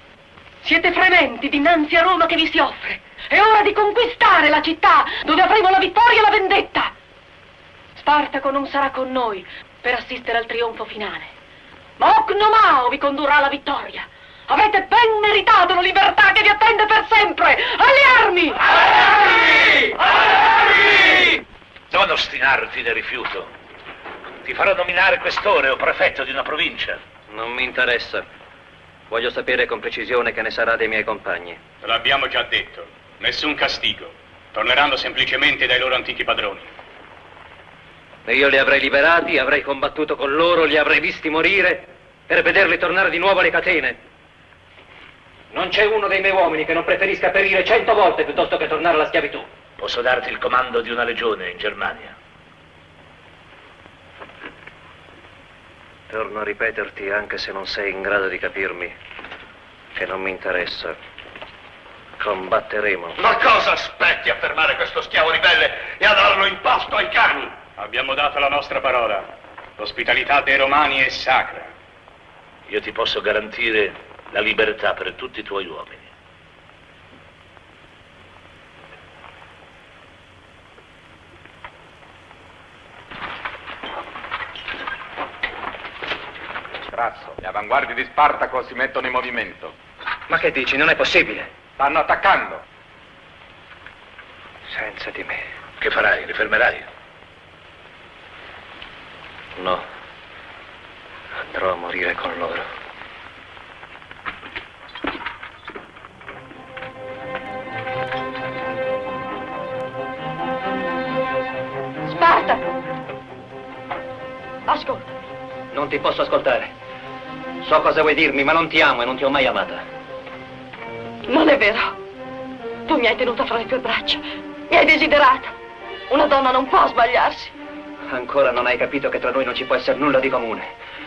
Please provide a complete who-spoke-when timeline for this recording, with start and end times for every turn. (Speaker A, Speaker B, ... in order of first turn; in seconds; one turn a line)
Speaker A: 0.6-6.9
Speaker A: 8.0-11.3
Speaker A: 12.0-18.6
Speaker B: 21.9-23.5
Speaker B: 24.4-27.0
Speaker C: 27.3-28.2
Speaker C: 29.1-31.6
Speaker D: 31.8-36.7
Speaker C: 38.3-44.0
Speaker C: 45.5-49.5
Speaker B: 49.8-52.1
Speaker C: 56.1-58.9
Speaker C: 59.9-61.0
Speaker C: 62.2-63.2
Speaker E: 63.4-67.5
Speaker D: 67.8-71.7
Speaker B: 72.7-76.1
Speaker F: 86.9-89.7
Speaker C: 90.3-91.5
Speaker F: 91.8-92.6
Speaker C: 94.7-95.4
Speaker B: 95.8-96.8
Speaker C: 99.6-99.8
Speaker C: 101.5-102.7
Speaker G: 112.2-112.4
Speaker G: 114.7-115.0
Speaker C: 115.7-116.7
Speaker C: 117.6-119.8
Speaker G: 121.3-121.9
Speaker G: 122.9-124.2
Speaker G: 124.7-125.5
Speaker G: 126.1-127.5
Speaker C: 128.1-130.7